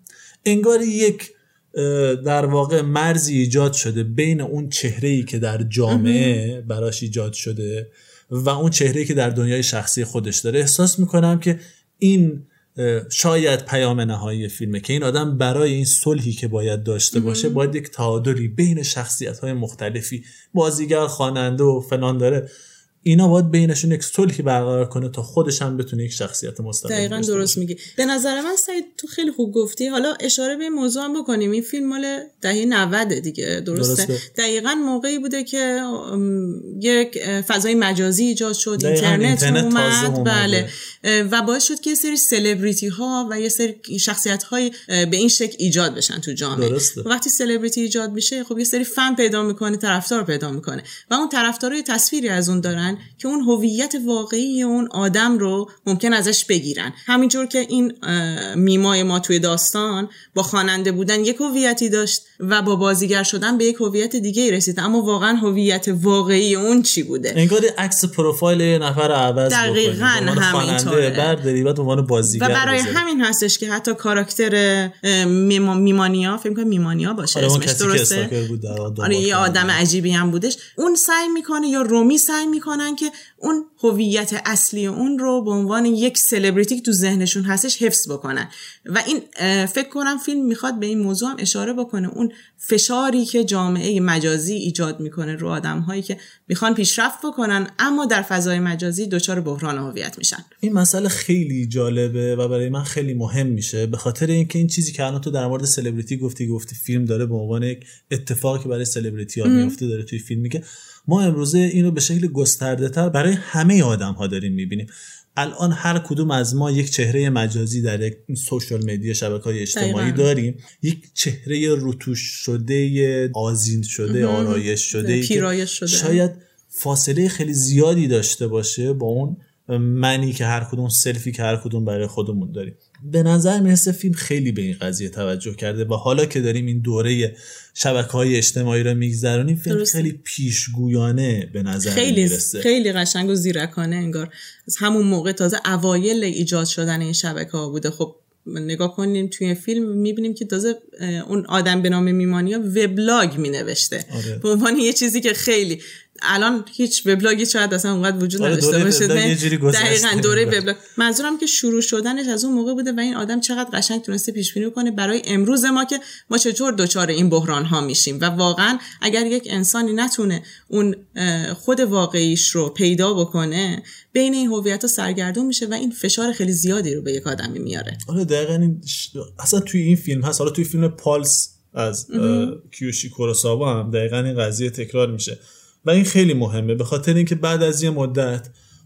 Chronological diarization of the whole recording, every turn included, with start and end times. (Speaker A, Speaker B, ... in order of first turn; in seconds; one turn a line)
Speaker A: 0.5-22.5
Speaker B: 5.9-6.4
Speaker B: 17.1-17.6
Speaker A: 23.1-27.6
Speaker B: 26.9-67.4
Speaker A: 33.7-34.2
Speaker A: 38.8-40.7
Speaker A: 46.5-47.1
Speaker A: 67.3-73.0
Speaker B: 69.5-71.4
Speaker B: 72.2-78.3
Speaker A: 77.3-79.8
Speaker B: 79.0-100.5
Speaker A: 100.6-142.7
Speaker B: 109.4-109.8
Speaker B: 119.8-120.3
Speaker B: 124.1-126.2
Speaker B: 139.7-140.1
Speaker B: 141.8-178.0
Speaker A: 154.1-154.4
Speaker A: 158.4-160.6
Speaker A: 178.1-188.5
Speaker B: 182.1-182.6